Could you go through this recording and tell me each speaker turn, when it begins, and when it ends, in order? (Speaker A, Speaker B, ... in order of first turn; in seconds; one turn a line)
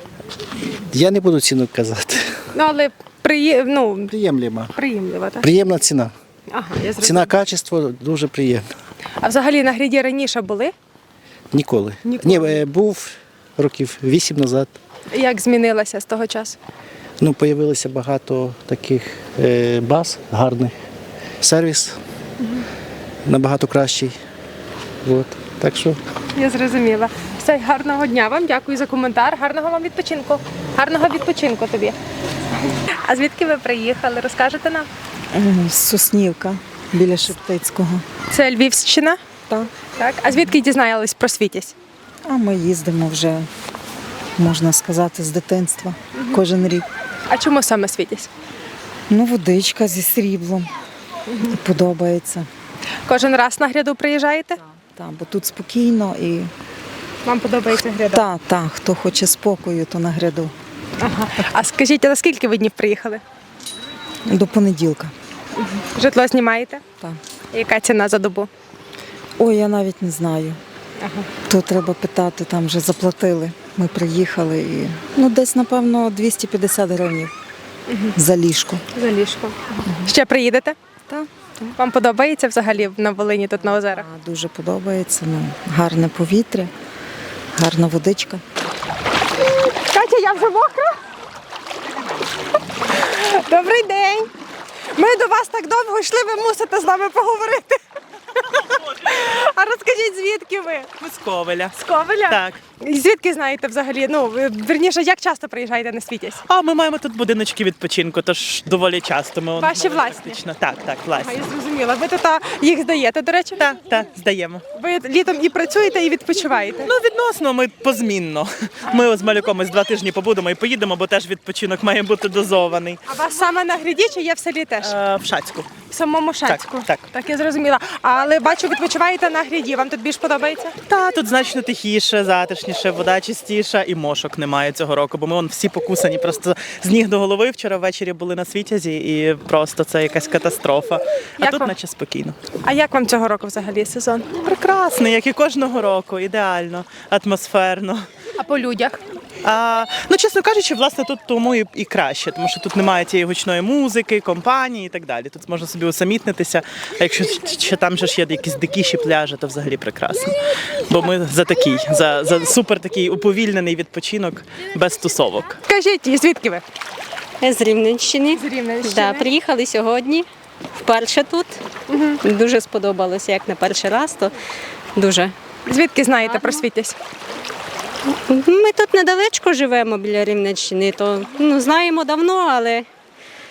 Speaker A: 0.9-2.3
Speaker B: 2.5-4.1
Speaker A: 4.1-4.7
Speaker B: 4.8-5.5
Speaker A: 5.4-6.1
Speaker B: 6.5-7.3
Speaker A: 7.0-8.7
Speaker B: 9.2-10.7
Speaker A: 11.5-14.8
Speaker B: 12.1-12.6
Speaker B: 15.1-16.6
Speaker A: 17.2-20.7
Speaker A: 21.4-22.0
Speaker A: 23.2-24.2
Speaker A: 25.1-26.0
Speaker B: 26.4-31.9
Speaker B: 33.1-34.9
Speaker C: 35.3-38.0
Speaker B: 38.3-39.2
Speaker B: 39.9-41.8
Speaker C: 42.2-43.5
Speaker C: 44.4-46.9
Speaker B: 47.3-48.3
Speaker C: 49.1-50.7
Speaker C: 51.4-52.5
Speaker B: 53.1-54.6
Speaker C: 55.0-56.5
Speaker B: 57.2-58.2
Speaker C: 58.1-60.5
Speaker B: 61.0-63.2
Speaker C: 64.3-65.1
Speaker B: 65.8-66.8
Speaker B: 67.5-68.5
Speaker C: 69.4-70.6
Speaker B: 71.0-71.3
Speaker C: 71.5-77.3
Speaker B: 77.9-78.2
Speaker C: 78.2-78.8
Speaker B: 78.9-80.8
Speaker C: 79.8-80.1
Speaker C: 81.1-81.7
Speaker B: 81.8-84.1
Speaker C: 83.9-86.7
Speaker C: 87.5-88.4
Speaker B: 89.9-90.9
Speaker B: 92.9-94.3
Speaker B: 95.0-97.8
Speaker B: 99.0-100.9
Speaker D: 101.0-101.8
Speaker B: 101.8-106.4
Speaker D: 102.3-102.6
Speaker D: 106.5-111.3
Speaker B: 109.6-110.4
Speaker B: 111.2-113.7
Speaker D: 113.6-114.6
Speaker B: 114.8-116.9
Speaker D: 116.8-123.0
Speaker B: 123.1-124.9
Speaker D: 124.8-125.7
Speaker B: 125.9-130.8
Speaker D: 126.4-127.0
Speaker D: 130.9-142.4
Speaker B: 141.4-141.7
Speaker B: 142.6-144.3
Speaker D: 144.4-148.1
Speaker B: 148.4-149.0
Speaker D: 149.4-160.4
Speaker D: 160.9-165.6
Speaker B: 165.7-166.6
Speaker E: 167.4-171.6
Speaker B: 168.3-169.3
Speaker B: 171.9-172.2
Speaker E: 172.2-174.3
Speaker E: 174.9-175.3
Speaker B: 175.7-176.9
Speaker E: 176.2-176.7
Speaker E: 178.3-182.9